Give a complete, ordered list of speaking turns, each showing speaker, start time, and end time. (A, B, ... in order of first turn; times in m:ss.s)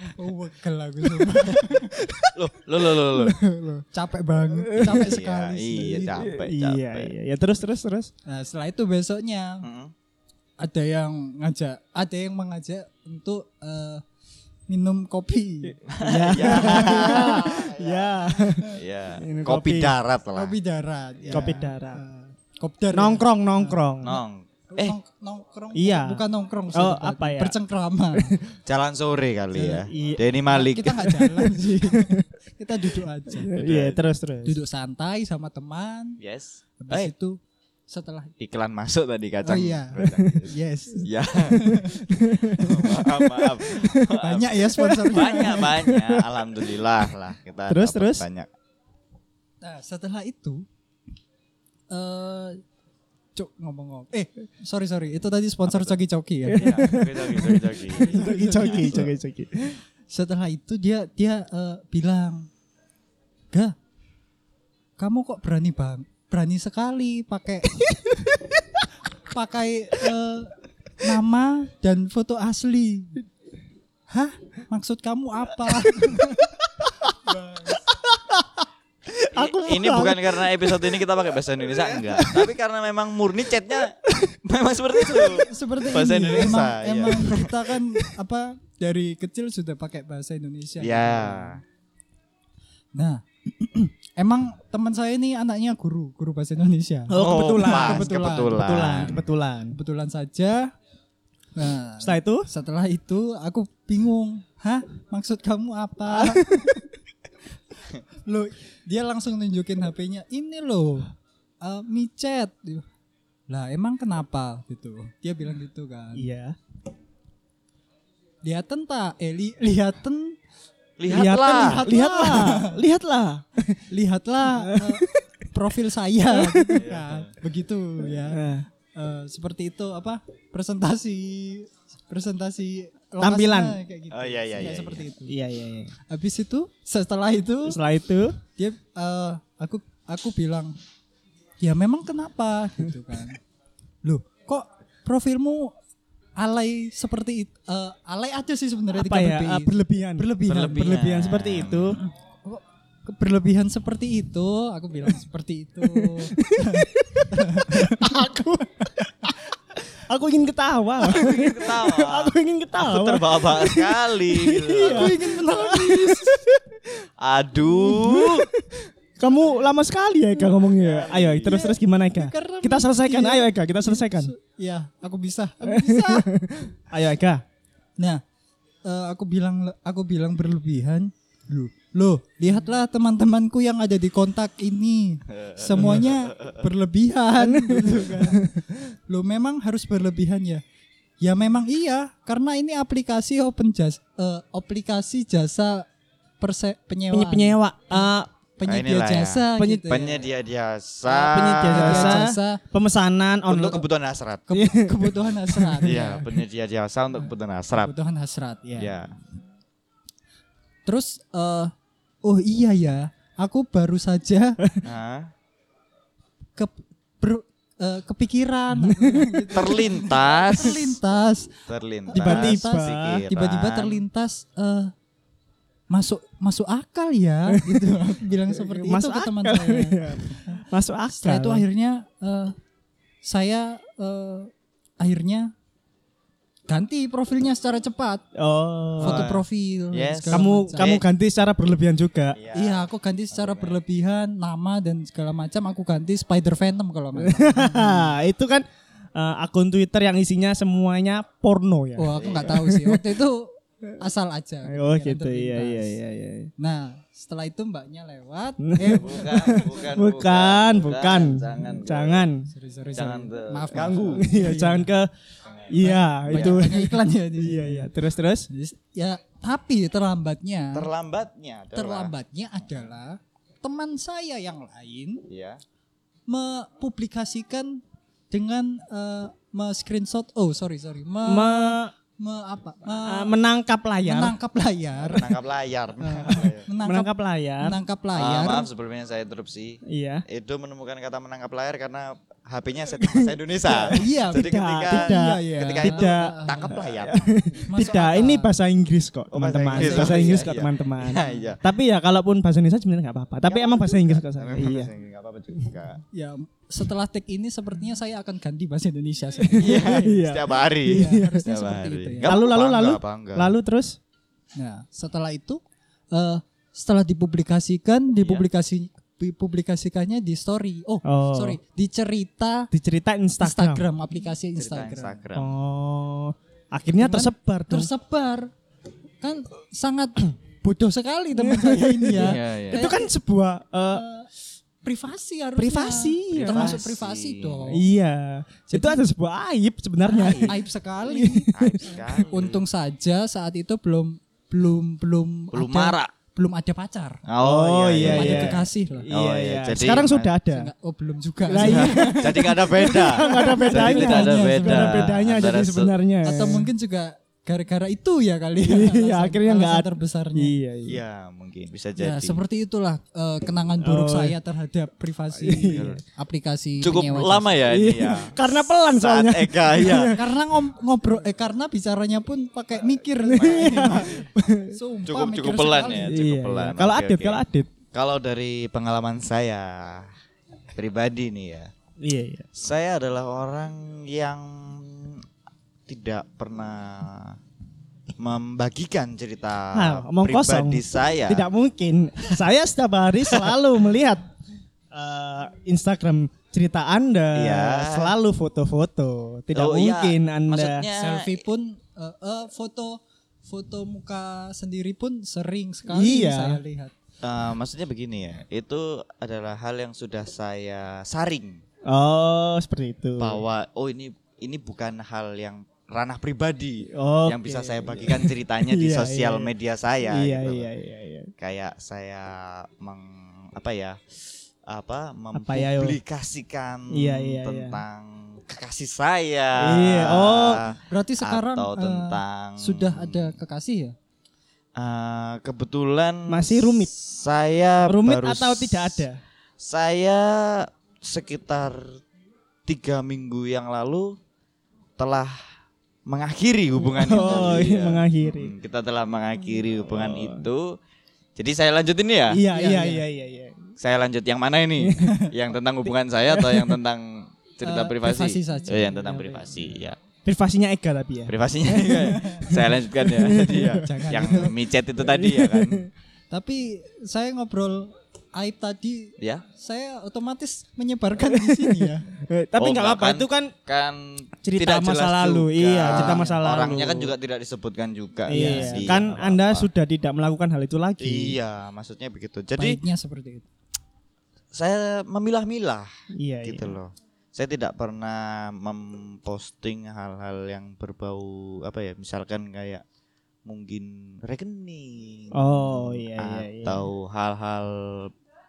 0:00.2-0:02.3 A
0:01.2-0:01.4 B
0:02.0-0:02.3 B
0:02.4-0:03.4 C
0:03.1-0:03.8 B
0:03.9-0:06.3 A
0:04.7-0:05.2 B
0:04.8-0:07.1 C
0:06.1-0:08.1 B
0:08.3-0:09.7 A
0:09.6-0:09.9 C
0:10.6-0:14.0 A
0:14.7-0:15.8 A
0:15.9-0:20.6 C
0:16.0-0:20.0 B
0:16.4-0:17.6 A
0:20.3-0:23.9 A
0:21.2-0:21.6 C
0:21.3-0:22.0 B
0:22.9-0:24.2 B
0:24.0-0:25.0 C
0:24.7-0:28.4 A
0:25.8-0:27.5 B
0:28.7-0:31.1 C
0:29.6-0:29.9 A
0:29.7-0:30.2 B
0:30.5-0:33.5 A
0:31.1-0:32.3 B
0:33.4-0:34.6 B
0:33.6-0:34.0 C
0:34.4-0:36.2 A
0:36.2-0:37.1 C
0:36.8-0:38.3 A
0:38.4-0:41.8 C
0:39.4-0:42.7 A
0:42.0-0:44.1 B
0:42.6-0:48.5 C
0:44.2-0:45.7 A
0:44.8-0:46.2 B
0:47.7-0:48.2 B
0:49.6-0:50.7 A
0:51.9-0:52.6 A
0:53.4-0:59.1 A
0:55.7-0:56.0 C
0:56.5-0:59.8 B
0:56.6-0:59.1 C
1:00.1-1:02.5 A
1:05.0-1:08.4 A
1:09.2-1:13.3 A
1:14.1-1:16.5 A
1:15.7-1:17.1 B
1:17.2-1:17.9 A
1:17.7-1:18.5 B
1:19.1-1:21.0 B
1:19.3-1:27.6 C
1:22.0-1:22.5 B
1:25.1-1:31.6 A
1:30.8-1:31.6 C
1:33.0-1:40.7 A
1:37.1-1:39.8 B
1:37.2-1:39.2 C
1:41.6-1:46.7 A
1:42.0-1:42.5 B
1:46.1-1:46.8 B
1:48.2-1:52.9 A
1:53.5-1:56.3 A
1:56.2-1:56.6 B
1:58.4-2:00.4 A
2:01.0-2:01.9 C
2:01.1-2:03.8 B
2:01.1-2:02.8 A
2:03.9-2:15.4 A
2:04.4-2:05.2 B
2:06.3-2:06.8 B
2:06.8-2:07.4 C
2:08.3-2:08.7 B
2:13.2-2:13.8 B
2:14.1-2:15.1 C
2:15.3-2:15.9 B
2:16.1-2:17.8 A
2:17.7-2:18.4 B
2:18.5-2:20.8 A
2:21.6-2:23.4 A
2:24.0-2:25.7 A
2:26.4-2:31.0 A
2:29.0-2:32.0 B
2:30.5-2:32.0 C
2:32.0-2:38.9 A
2:35.8-2:39.3 B
2:40.0-2:46.6 B
2:41.1-2:45.2 C
2:44.8-2:46.4 A
2:47.2-2:48.5 C
2:47.8-2:54.3 B
2:50.7-2:51.6 C
2:51.4-2:56.3 A
2:55.6-2:57.4 B
2:58.8-3:08.5 A
3:05.3-3:06.6 C
3:05.8-3:06.0 B
3:07.4-3:08.7 B
3:09.1-3:10.6 A
3:11.2-3:15.9 A
3:16.4-3:20.3 A
3:17.1-3:18.3 B
3:18.6-3:22.2 C
3:19.6-3:19.9 B
3:21.1-3:22.6 A
3:21.2-3:23.8 B
3:23.5-3:24.4 C
3:24.5-3:26.3 A
3:24.5-3:26.0 B
3:25.8-3:27.9 C
3:27.7-3:28.9 A
3:28.8-3:29.2 C
3:30.9-3:31.7 A
3:32.2-3:34.6 A
3:34.8-3:35.3 C
3:36.6-3:44.9 A
3:38.8-3:39.8 B
3:39.5-3:41.0 C
3:41.7-3:44.0 C
3:42.2-3:43.3 B
3:45.9-3:52.6 A
3:47.5-3:48.1 B
3:48.6-3:51.6 B
3:53.2-3:55.5 A
3:56.7-3:58.2 A
3:58.4-3:59.3 B
3:59.0-4:00.9 A
3:59.0-4:01.0 C
4:00.3-4:02.4 B
4:02.3-4:03.8 C
4:02.5-4:08.1 A
4:07.2-4:13.1 B
4:12.0-4:16.0 A
4:12.2-4:12.6 C
4:14.7-4:16.5 B
4:16.6-4:19.6 A
4:18.6-4:22.5 B
4:18.8-4:22.3 C
4:22.5-4:24.9 A
4:22.9-4:24.3 C
4:23.8-4:25.1 B
4:25.7-4:28.5 B
4:25.8-4:27.9 A
4:26.3-4:26.7 C
4:28.5-4:30.9 A
4:30.7-4:32.1 C
4:31.7-4:35.3 A
4:35.3-4:35.6 C
4:36.3-4:43.3 A
4:41.3-4:41.9 B
4:43.0-4:44.4 B
4:44.0-4:45.3 A
4:45.0-4:46.7 C
4:46.0-4:47.1 A
4:46.8-4:47.8 B
4:47.6-4:48.7 A
4:48.2-4:57.3 C
4:49.9-4:50.2 B
4:53.0-5:04.9 B
4:53.9-4:56.8 A
4:57.7-4:58.5 A
4:59.3-5:01.6 C
4:59.7-5:00.5 A
5:03.5-5:06.0 C
5:06.1-5:10.1 A
5:09.6-5:11.4 B
5:09.6-5:13.5 C
5:10.9-5:12.3 A
5:12.2-5:14.0 B
5:14.6-5:15.6 A
5:16.1-5:22.7 A
5:18.2-5:18.5 C
5:21.1-5:21.6 B
5:22.7-5:23.8 B
5:23.4-5:25.2 A
5:24.6-5:25.6 C
5:25.4-5:27.9 B
5:27.0-5:28.5 A
5:29.2-5:33.1 A
5:31.4-5:34.0 B
5:32.2-5:32.9 C
5:33.9-5:34.3 A
5:34.8-5:37.8 A
5:35.6-5:36.8 B
5:36.3-5:37.8 C
5:37.7-5:40.5 B
5:38.7-5:39.0 A
5:40.1-5:47.2 A
5:40.1-5:40.6 C
5:41.1-5:42.3 B
5:41.5-5:42.6 C
5:45.5-5:46.1 C
5:47.3-5:50.4 C
5:47.4-5:50.7 B
5:48.1-5:49.1 A
5:50.5-5:55.1 A
5:51.5-5:56.7 B
5:51.5-5:56.0 C
5:56.2-6:00.6 A
5:58.6-6:01.0 B
6:00.9-6:02.4 C
6:02.0-6:07.7 A
6:03.8-6:04.4 B
6:05.4-6:05.9 B
6:05.7-6:06.0 C
6:06.8-6:10.2 C
6:07.7-6:10.2 B
6:10.1-6:16.1 A
6:13.3-6:14.2 C
6:13.3-6:14.7 B
6:15.1-6:20.1 C
6:16.1-6:17.7 B
6:20.8-6:21.7 C
6:22.0-6:22.5 B
6:22.5-6:25.2 C
6:25.9-6:27.4 C
6:28.2-6:31.5 C
6:29.7-6:34.3 B
6:33.3-6:33.6 C
6:34.9-6:40.9 B
6:37.3-6:38.2 C
6:39.5-6:41.4 C
6:41.0-6:46.9 A
6:45.9-6:46.6 B
6:47.2-6:51.6 C
6:51.9-6:53.4 B
6:53.2-7:00.7 C
6:56.9-6:59.5 B
7:00.1-7:01.3 B
7:01.4-7:13.4 C
7:05.3-7:06.0 B
7:06.9-7:07.8 B
7:09.6-7:10.6 B
7:10.9-7:14.0 A
7:14.8-7:22.0 C
7:16.3-7:16.9 B
7:17.9-7:19.2 B
7:22.7-7:24.2 C
7:25.0-7:25.4 C
7:26.1-7:30.8 C
7:26.8-7:27.7 A
7:27.0-7:28.5 B
7:29.9-7:30.5 B
7:31.4-7:32.4 C
7:32.3-7:33.7 B
7:32.5-7:33.0 A
7:33.8-7:40.0 C
7:34.8-7:35.1 B
7:36.3-7:36.8 B
7:37.6-7:39.5 A
7:40.2-7:45.9 B
7:41.3-7:45.9 C
7:42.0-7:42.5 A
7:43.8-7:44.5 A
7:46.3-7:52.1 A
7:49.2-7:49.4 C
7:51.2-7:53.5 B
7:52.6-7:59.7 C
7:54.4-7:57.1 B
7:55.8-7:56.4 A
7:58.3-8:01.4 B
7:58.3-7:59.0 A
8:01.0-8:02.8 C
8:02.6-8:03.5 A
8:04.5-8:05.9 C
8:06.2-8:06.8 B
8:06.4-8:12.8 C
8:13.4-8:18.1 C
8:15.3-8:16.9 B